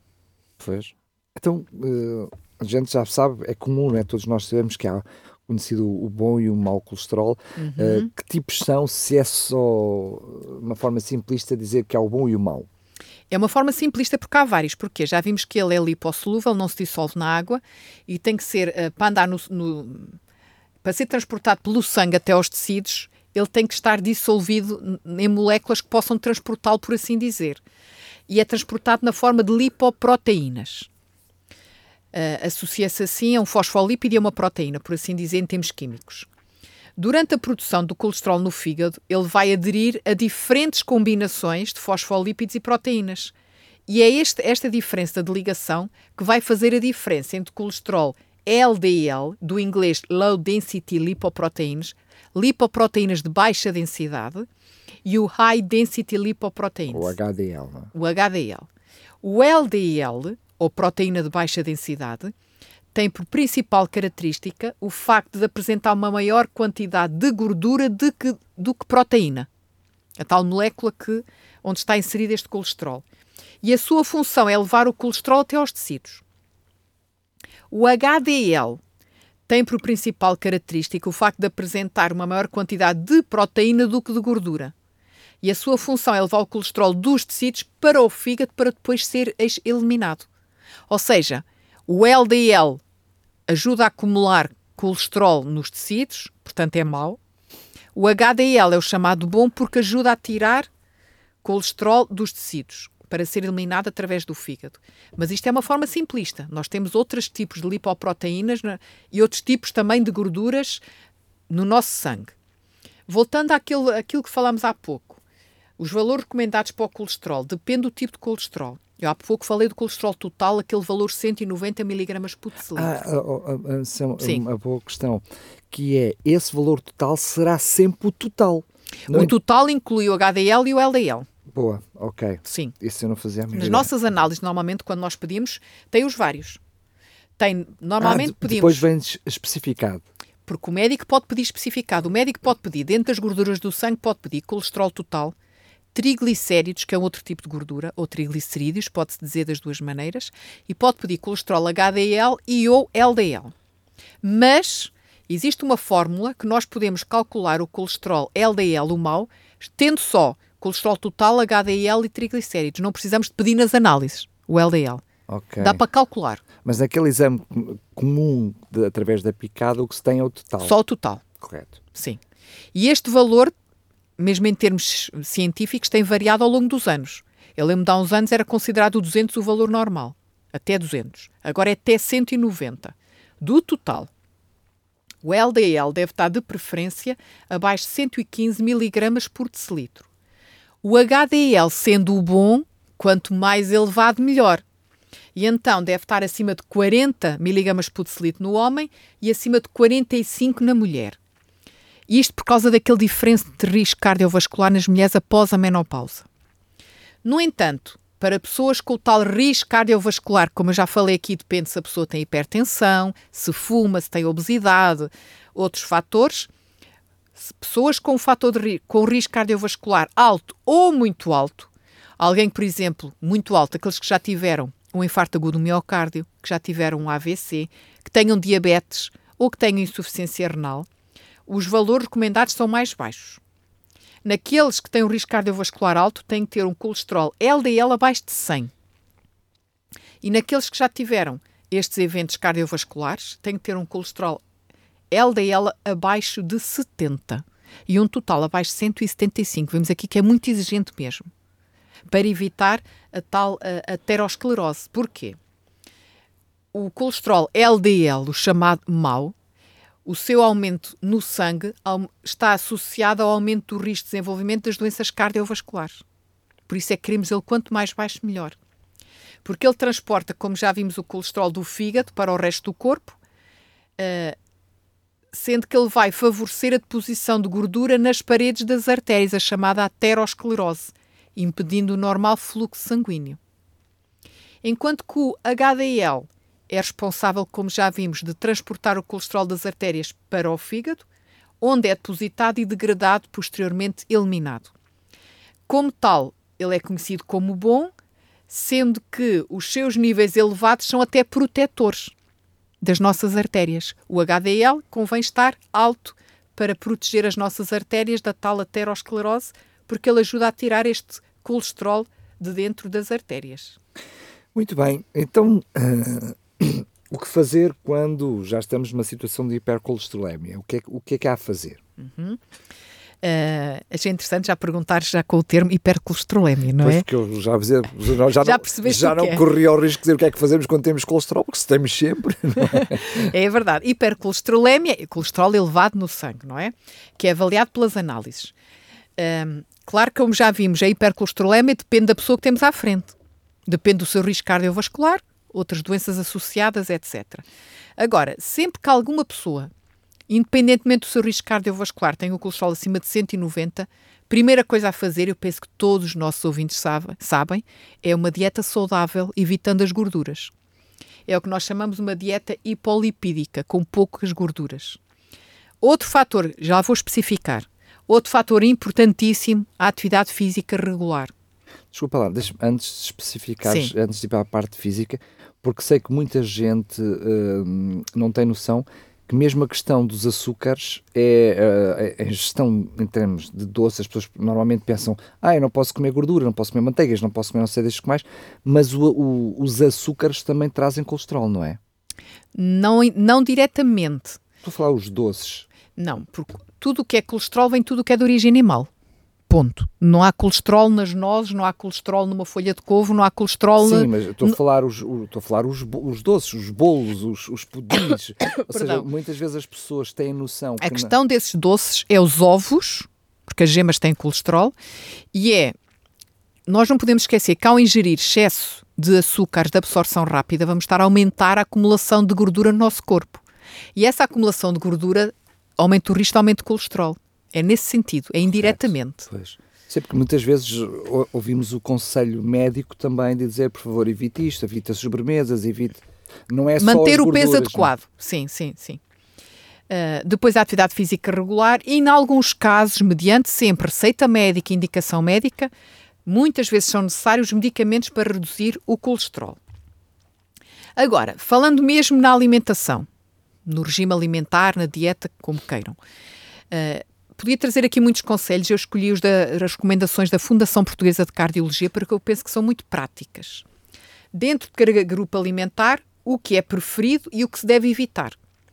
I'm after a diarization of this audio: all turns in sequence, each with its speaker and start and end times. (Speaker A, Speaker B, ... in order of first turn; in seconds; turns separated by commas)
Speaker A: 0.6-12.7, Speaker B: 7.6-8.1, Speaker B: 13.3-20.2, Speaker B: 20.8-27.6, Speaker B: 28.3-30.9, Speaker B: 32.1-36.3, Speaker B: 37.0-43.3, Speaker B: 43.9-54.5, Speaker B: 55.0-57.1, Speaker A: 56.9-57.9, Speaker B: 57.9-58.7, Speaker B: 59.2-62.3, Speaker B: 62.9-69.5, Speaker B: 70.2-73.0, Speaker B: 73.6-76.2, Speaker B: 77.7-78.8, Speaker B: 79.5-84.7, Speaker B: 85.4-90.3, Speaker B: 90.9-92.8, Speaker B: 93.5-97.2, Speaker B: 97.9-100.7, Speaker B: 101.4-110.8, Speaker B: 111.5-112.3, Speaker B: 113.1-115.2, Speaker B: 115.8-122.9, Speaker A: 122.7-129.3, Speaker B: 129.1-131.3, Speaker A: 131.5-133.9, Speaker B: 132.4-132.7, Speaker B: 133.5-136.6, Speaker B: 137.4-138.8, Speaker A: 138.0-140.0, Speaker B: 140.5-145.3, Speaker B: 145.9-153.5, Speaker B: 154.2-165.0, Speaker A: 165.3-165.8, Speaker B: 165.6-166.4, Speaker A: 166.6-170.7, Speaker B: 170.6-171.2, Speaker A: 171.4-171.8, Speaker B: 171.9-172.2, Speaker B: 172.7-173.5, Speaker B: 174.2-184.1, Speaker B: 185.2-190.1, Speaker B: 190.8-194.6, Speaker B: 195.3-201.2, Speaker B: 202.1-206.3, Speaker B: 207.2-216.5, Speaker B: 217.4-230.9, Speaker B: 231.5-233.4, Speaker B: 234.2-238.7, Speaker B: 240.2-244.4, Speaker B: 245.1-251.3, Speaker B: 252.1-255.4, Speaker B: 256.7-259.3, Speaker B: 260.0-266.0, Speaker B: 266.7-268.6, Speaker B: 269.4-273.2, Speaker B: 274.0-274.4, Speaker B: 275.3-283.4, Speaker B: 284.6-291.0, Speaker B: 291.6-294.7, Speaker B: 295.7-297.9, Speaker B: 298.5-302.1, Speaker B: 302.8-313.8, Speaker A: 314.5-321.8, Speaker B: 322.0-322.4, Speaker B: 323.2-327.1, Speaker A: 326.8-333.3, Speaker B: 328.4-329.4, Speaker B: 332.7-338.5, Speaker B: 339.2-343.1, Speaker B: 343.7-347.4, Speaker B: 348.0-349.7, Speaker B: 350.3-360.5, Speaker B: 361.3-365.0, Speaker B: 365.8-371.3, Speaker A: 371.9-391.8, Speaker B: 373.6-373.9, Speaker B: 392.5-394.4, Speaker A: 394.6-395.7, Speaker B: 396.0-398.9, Speaker B: 399.5-404.6, Speaker A: 403.8-411.1, Speaker B: 408.6-409.1, Speaker B: 410.8-414.7, Speaker B: 415.3-415.7, Speaker B: 416.7-423.4, Speaker B: 423.9-429.3, Speaker A: 428.5-437.9, Speaker B: 436.8-439.0, Speaker B: 439.9-445.7, Speaker B: 446.2-449.6, Speaker B: 451.0-453.1, Speaker B: 453.6-456.0, Speaker B: 456.7-463.6, Speaker B: 464.3-468.4